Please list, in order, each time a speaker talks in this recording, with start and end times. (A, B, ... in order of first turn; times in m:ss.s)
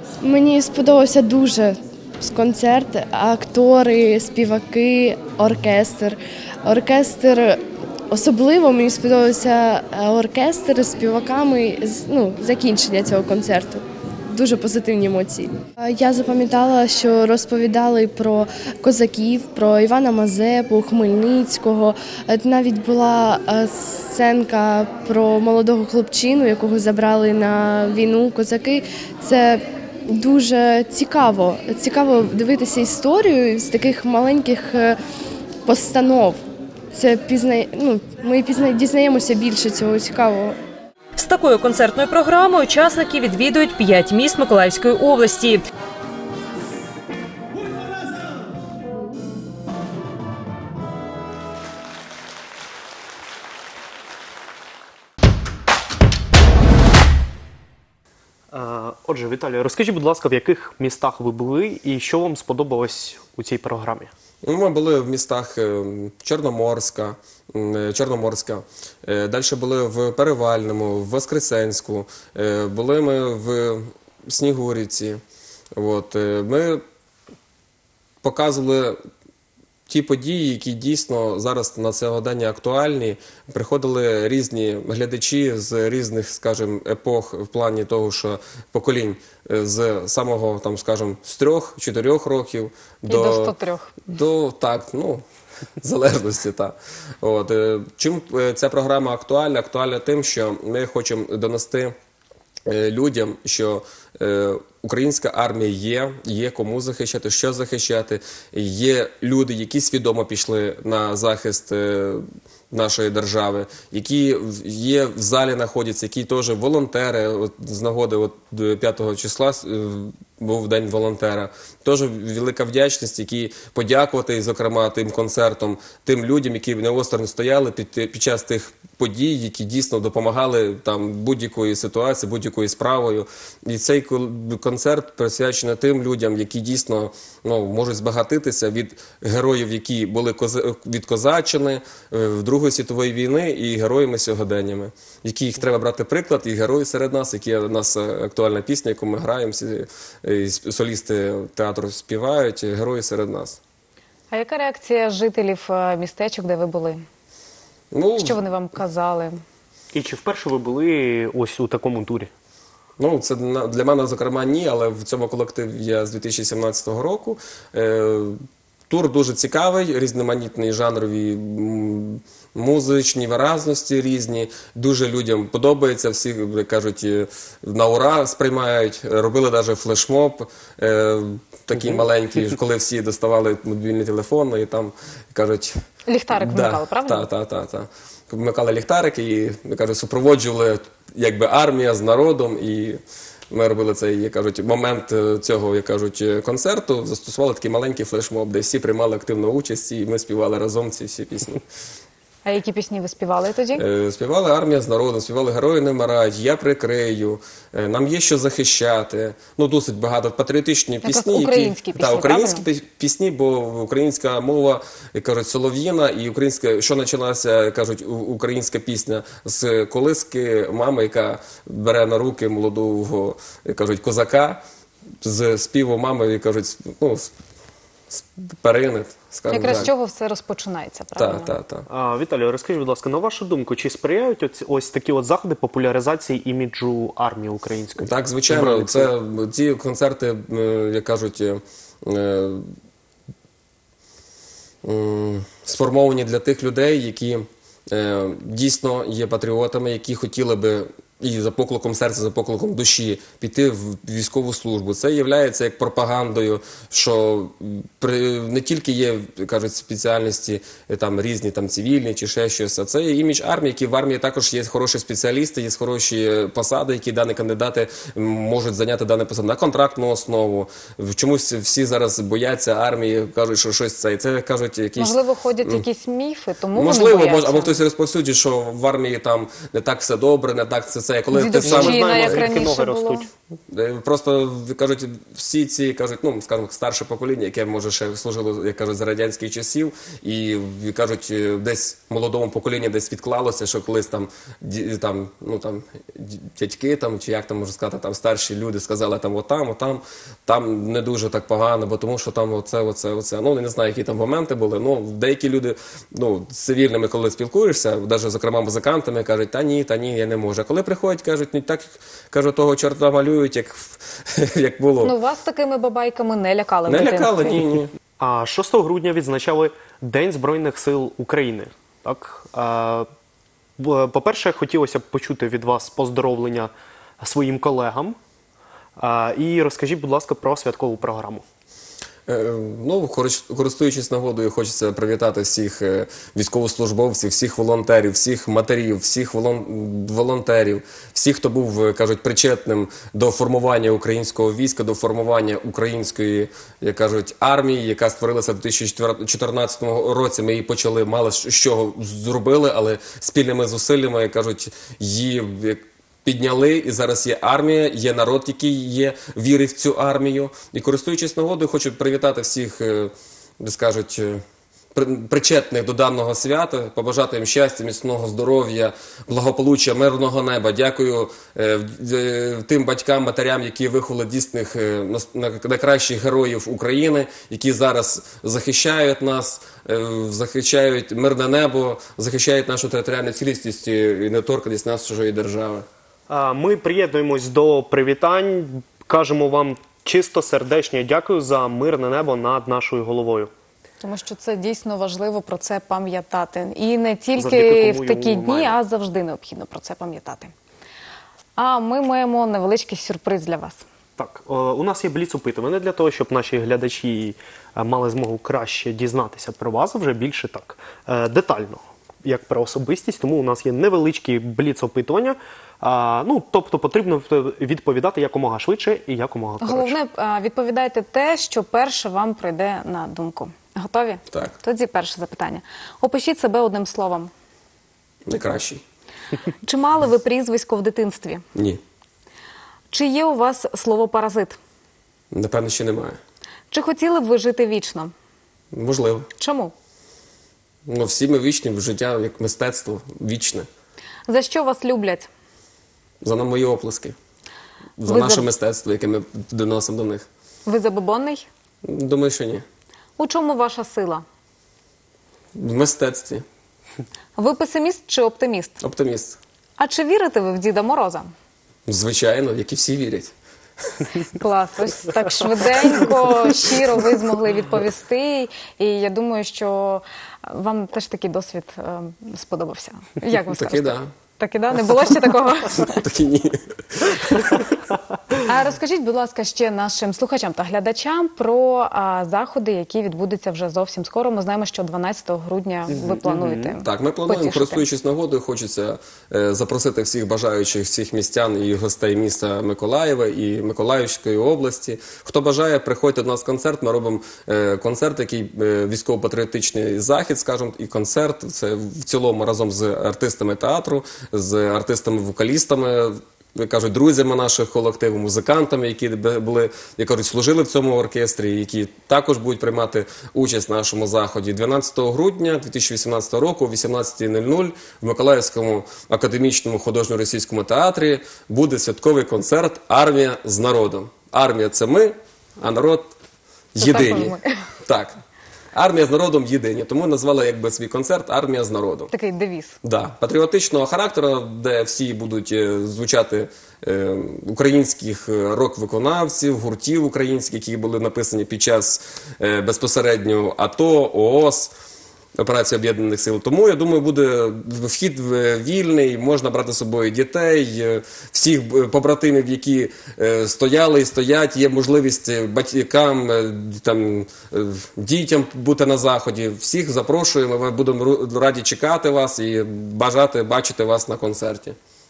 0:00.2-0:35.0 A
0:35.6-0:36.4 A
0:36.9-0:40.6 A
0:41.2-0:45.6 B
0:58.5-1:04.1 C
1:04.4-1:15.2 D
1:15.8-1:16.8 D
1:18.2-1:19.0 D
1:19.9-1:33.5 D
1:33.1-1:34.1 E
1:34.1-1:35.2 D
1:35.8-1:41.9 D
1:42.7-2:33.6 D
2:34.3-2:37.0 E
2:37.9-2:38.4 D
2:38.2-2:39.4 E
2:39.9-2:42.3 C
2:43.0-2:48.4 D
2:48.9-3:05.7 D
3:06.1-3:07.2 E
3:06.3-3:13.0 D
3:13.5-3:21.6 D
3:22.4-3:23.8 E
3:23.8-3:44.6 D
3:31.0-3:32.6 E
3:45.2-3:47.3 D
3:48.1-3:49.9 D
3:49.5-3:51.5 E
3:51.2-3:51.8 D
3:51.9-3:59.1 C
3:58.0-4:02.7 D
4:04.8-4:35.8 D
4:35.0-4:37.8 E
4:36.7-4:42.5 D
4:41.3-4:43.2 E
4:41.6-4:43.3 C
4:43.7-5:15.1 D
5:15.0-5:17.6 E
5:16.9-5:17.9 D
5:18.2-5:23.1 C
5:23.8-5:28.2 C
5:29.0-5:31.4 C
5:32.3-6:04.4 D
6:04.9-6:25.8 D
6:26.3-6:33.5 C
6:34.0-6:40.5 E
6:37.4-6:38.8 C
6:41.6-6:43.8 E
6:44.2-7:00.0 C
6:59.6-7:07.3 E
7:08.2-7:08.8 D
7:09.6-7:11.4 E
7:11.5-7:11.8 D
7:12.9-7:14.6 E
7:15.3-7:16.2 D
7:16.7-7:18.1 E
7:18.7-7:19.3 D
7:19.4-7:19.7 E
7:20.8-7:23.7 D
7:24.3-7:25.3 E
7:26.2-7:27.1 D
7:28.0-7:30.3 D
7:28.1-7:28.5 E
7:30.6-7:31.5 E
7:31.8-7:32.6 D
7:33.2-7:34.2 E
7:35.5-7:36.4 D
7:37.4-7:38.8 E
7:38.8-7:39.4 D
7:39.8-7:41.3 E
7:41.9-7:43.3 D
7:44.3-7:56.0 E
7:53.3-7:54.1 D
7:55.9-7:57.6 D
7:58.4-8:07.9 E
8:05.9-8:06.7 C
8:06.8-8:46.1 D
8:46.7-8:48.2 D
8:46.8-8:47.6 E
8:48.7-8:52.1 D
8:52.1-8:52.8 E
8:52.8-9:04.7 D
9:05.4-9:24.8 D